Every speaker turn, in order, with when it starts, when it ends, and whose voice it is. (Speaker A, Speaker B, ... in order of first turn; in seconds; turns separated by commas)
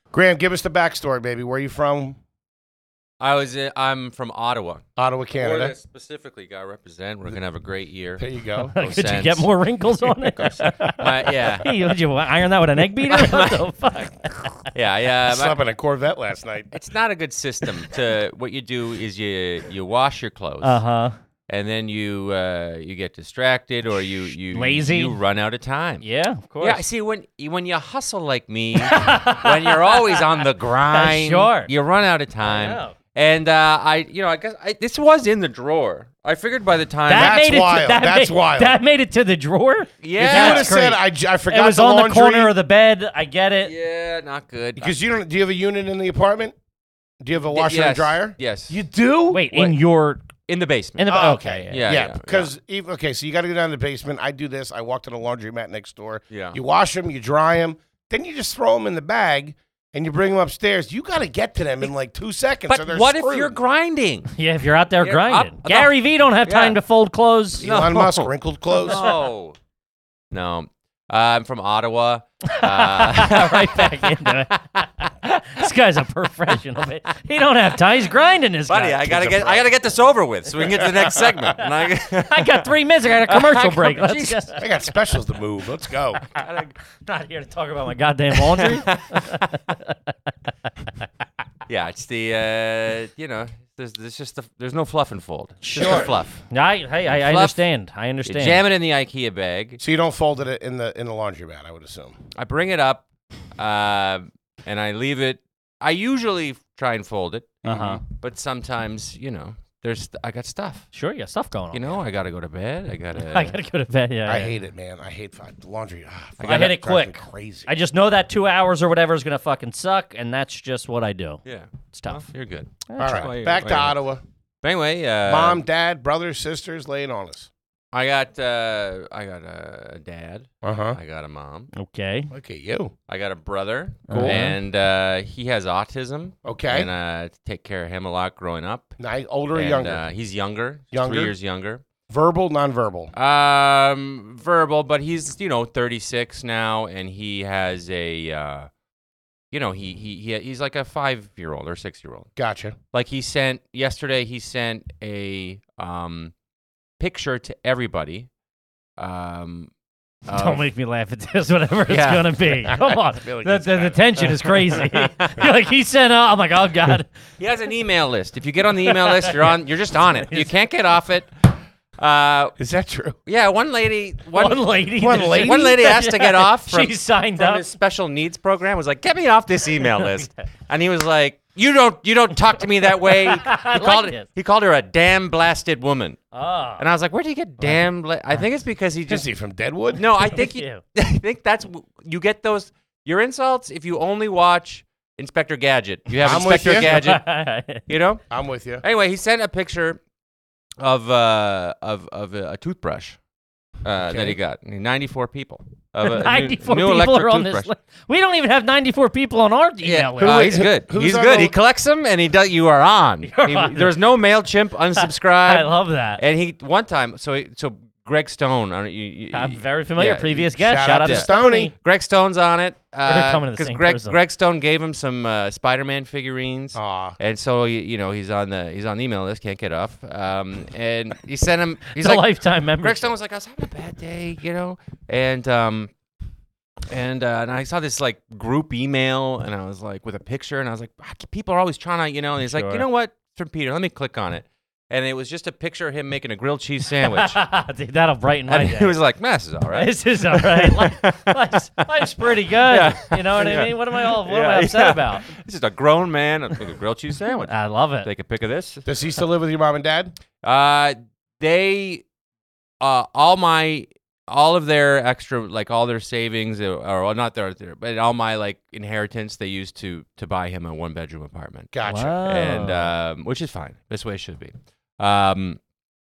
Speaker A: 0.1-2.2, Speaker B: 3.2-4.8, Speaker A: 5.0-5.7, Speaker B: 5.4-8.2, Speaker A: 8.2-8.7, Speaker C: 8.6-14.7, Speaker B: 8.8-9.5, Speaker B: 10.9-11.9, Speaker B: 13.1-13.6, Speaker B: 14.7-15.6, Speaker A: 15.3-16.7, Speaker B: 16.7-20.8, Speaker C: 20.6-21.1, Speaker B: 21.5-26.0, Speaker C: 24.5-25.1, Speaker C: 26.0-26.8, Speaker B: 26.6-37.4, Speaker C: 28.8-31.7, Speaker C: 32.4-32.9, Speaker C: 37.1-43.7, Speaker A: 37.1-38.8, Speaker B: 40.0-40.7, Speaker A: 40.2-42.5, Speaker B: 43.6-44.9, Speaker A: 44.8-46.5, Speaker A: 47.2-49.8, Speaker B: 47.5-48.8, Speaker C: 49.3-50.2, Speaker B: 50.5-51.1, Speaker C: 51.0-51.8, Speaker A: 51.1-63.5, Speaker B: 51.7-52.5, Speaker B: 56.3-56.6, Speaker B: 62.7-64.3, Speaker C: 64.3-67.6, Speaker B: 65.0-66.8, Speaker A: 67.6-69.0, Speaker B: 67.6-69.5, Speaker C: 68.8-69.2, Speaker B: 70.3-74.1, Speaker C: 72.5-79.0, Speaker B: 78.7-84.6, Speaker A: 79.0-79.7, Speaker C: 82.2-84.6, Speaker A: 84.6-86.2, Speaker C: 86.3-89.9, Speaker B: 86.4-86.7, Speaker B: 88.3-89.2, Speaker B: 91.7-96.4, Speaker C: 95.6-98.6, Speaker B: 97.0-97.6, Speaker B: 98.2-99.8, Speaker A: 99.8-102.2, Speaker B: 102.3-103.0, Speaker B: 103.5-110.9, Speaker C: 107.6-108.0, Speaker A: 107.7-108.0, Speaker C: 110.9-112.0, Speaker B: 111.7-113.5, Speaker C: 113.2-114.5, Speaker A: 114.2-117.7, Speaker B: 116.4-116.8, Speaker C: 116.5-121.4, Speaker B: 121.4-124.0, Speaker C: 121.9-122.2, Speaker C: 122.9-123.2, Speaker A: 123.0-124.2, Speaker B: 124.6-125.6, Speaker A: 125.2-127.5, Speaker B: 127.9-131.7, Speaker A: 130.6-131.0, Speaker C: 131.7-132.3, Speaker A: 132.3-132.9, Speaker B: 133.1-139.0, Speaker C: 134.1-134.5, Speaker A: 134.1-134.6, Speaker A: 136.4-136.9, Speaker A: 139.0-140.0, Speaker B: 139.5-141.8, Speaker A: 140.9-141.3, Speaker A: 142.1-143.1, Speaker B: 143.1-148.7, Speaker B: 149.5-152.3, Speaker A: 152.3-152.8, Speaker B: 152.9-156.3, Speaker B: 157.0-158.3, Speaker B: 159.0-159.7, Speaker B: 160.2-160.7, Speaker C: 160.3-167.1, Speaker B: 161.9-162.4, Speaker A: 162.9-164.0, Speaker B: 164.7-165.5, Speaker B: 167.4-172.6, Speaker C: 168.8-169.6, Speaker C: 170.2-170.5, Speaker A: 172.6-173.2, Speaker B: 173.2-174.6, Speaker C: 174.4-177.6, Speaker A: 175.0-175.8, Speaker B: 175.2-186.2, Speaker C: 183.1-184.2, Speaker C: 186.3-186.8, Speaker B: 186.8-189.2, Speaker C: 187.6-188.4, Speaker A: 189.1-190.0, Speaker B: 189.9-197.2, Speaker C: 190.2-190.8, Speaker A: 196.2-196.9, Speaker C: 196.4-197.8, Speaker B: 197.9-198.2, Speaker A: 198.3-198.8, Speaker B: 198.8-200.0, Speaker B: 200.8-203.2, Speaker B: 203.8-207.7, Speaker A: 204.1-204.3, Speaker C: 206.0-210.6, Speaker B: 209.8-220.4, Speaker A: 210.2-211.5, Speaker C: 213.2-213.9, Speaker C: 215.0-216.2, Speaker C: 219.3-221.7, Speaker A: 220.5-221.7, Speaker B: 221.0-235.9, Speaker C: 223.1-224.2, Speaker A: 226.7-227.1, Speaker C: 232.0-233.1, Speaker B: 236.9-247.4, Speaker C: 242.4-242.8, Speaker C: 247.1-248.9, Speaker B: 248.5-258.9, Speaker C: 249.7-255.2, Speaker C: 257.4-258.1, Speaker A: 258.8-260.1, Speaker B: 260.4-262.0, Speaker B: 262.8-271.7, Speaker A: 271.7-272.2, Speaker C: 271.8-272.9, Speaker B: 272.2-275.6